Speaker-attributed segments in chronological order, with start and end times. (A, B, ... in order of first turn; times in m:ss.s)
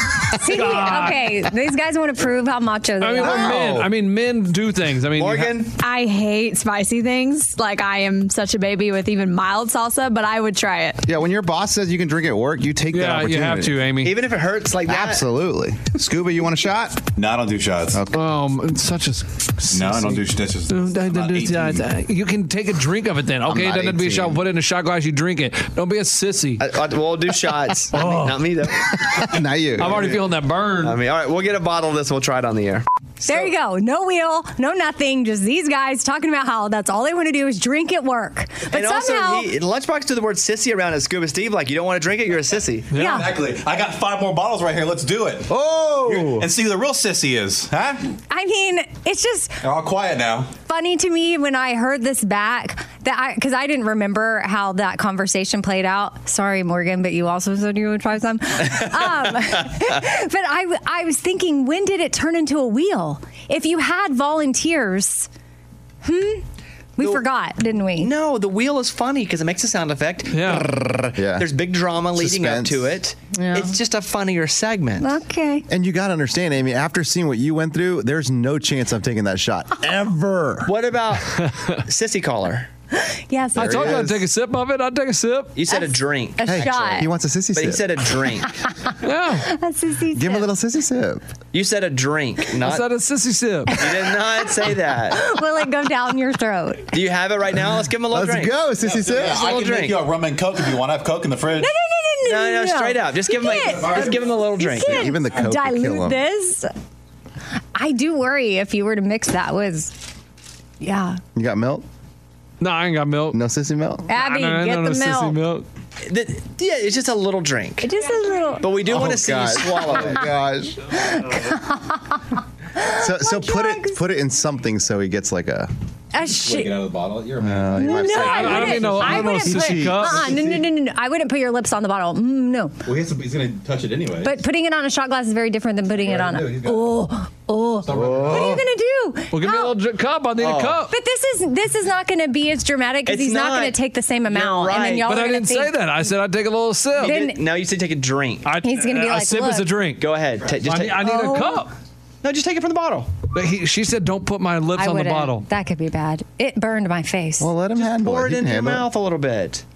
0:00.4-0:03.7 A
0:00.4-0:01.4 B
0:03.0-0:05.6 B
0:03.2-0:03.9 C
0:05.1-0:05.7 D
0:05.8-0:11.1 E
0:11.1-0:13.8 C
0:12.9-0:14.2 B
0:14.0-0:15.3 D
0:14.8-0:17.1 C
0:17.1-0:18.0 F
0:17.9-0:18.2 C
0:18.1-0:26.6 B
0:19.7-0:21.9 F
0:23.5-0:24.4 C
0:26.6-0:29.2 D
0:27.9-0:28.5 B
0:29.1-0:30.2 C
0:29.8-0:31.0 B
0:29.8-0:30.2 D
0:30.8-0:33.5 D
0:33.2-0:39.5 A
0:38.7-0:42.9 D
0:42.9-0:43.3 B
0:42.9-0:43.4 A
0:43.0-0:45.5 F
0:45.5-0:46.5 C
0:46.0-0:48.0 F
0:48.3-0:49.6 A
0:49.6-0:50.5 F
0:50.7-1:05.3 A
1:06.0-1:06.4 A
1:07.0-1:08.1 A
1:07.0-1:07.2 D
1:08.0-1:15.2 D
1:10.3-1:10.7 B
1:11.1-1:11.5 C
1:12.1-1:12.9 C
1:13.3-1:13.7 A
1:15.0-1:15.7 A
1:15.7-1:20.7 C
1:20.6-1:22.7 D
1:21.3-1:21.8 B
1:23.0-1:24.0 A
1:23.6-1:25.6 B
1:23.6-1:24.2 C
1:25.6-1:28.6 D
1:25.7-1:27.1 A
1:26.4-1:27.9 C
1:29.0-1:29.5 B
1:29.3-1:30.5 A
1:30.1-1:31.2 C
1:31.5-1:32.9 D
1:32.6-1:33.8 B
1:33.7-1:36.9 A
1:33.8-1:35.3 D
1:36.9-1:38.6 D
1:38.1-1:39.4 C
1:38.8-1:41.7 F
1:39.1-1:40.2 D
1:41.6-1:46.7 A
1:42.2-1:45.1 D
1:43.7-1:44.4 F
1:44.8-1:46.2 C
1:47.8-1:49.9 A
1:50.8-1:51.2 A
1:51.3-1:51.8 C
1:52.6-1:53.4 B
1:53.3-1:54.1 C
1:54.1-1:55.4 A
1:54.1-1:55.7 B
1:56.0-1:57.9 D
1:57.8-1:58.7 A
1:58.6-2:00.3 D
1:58.8-2:00.9 C
2:00.9-2:04.0 A
2:03.0-2:05.7 C
2:06.1-2:06.9 A
2:06.2-2:07.9 F
2:07.4-2:10.4 C
2:07.8-2:12.8 A
2:08.0-2:10.3 B
2:12.8-2:14.4 F
2:14.2-2:19.8 A
2:16.0-2:17.0 F
2:17.9-2:18.6 F
2:17.9-2:18.7 C
2:19.3-2:20.9 B
2:20.4-2:20.8 D
2:20.9-2:25.8 A
2:23.0-2:25.1 D
2:25.1-2:27.2 B
2:27.0-2:27.4 A
2:27.0-2:28.6 D
2:28.4-2:31.7 B
2:28.6-2:29.8 A
2:30.0-2:31.1 D
2:31.0-2:31.7 A
2:32.2-2:33.1 D
2:33.3-2:35.5 B
2:34.8-2:37.5 A
2:37.4-2:38.9 C
2:37.8-2:39.6 D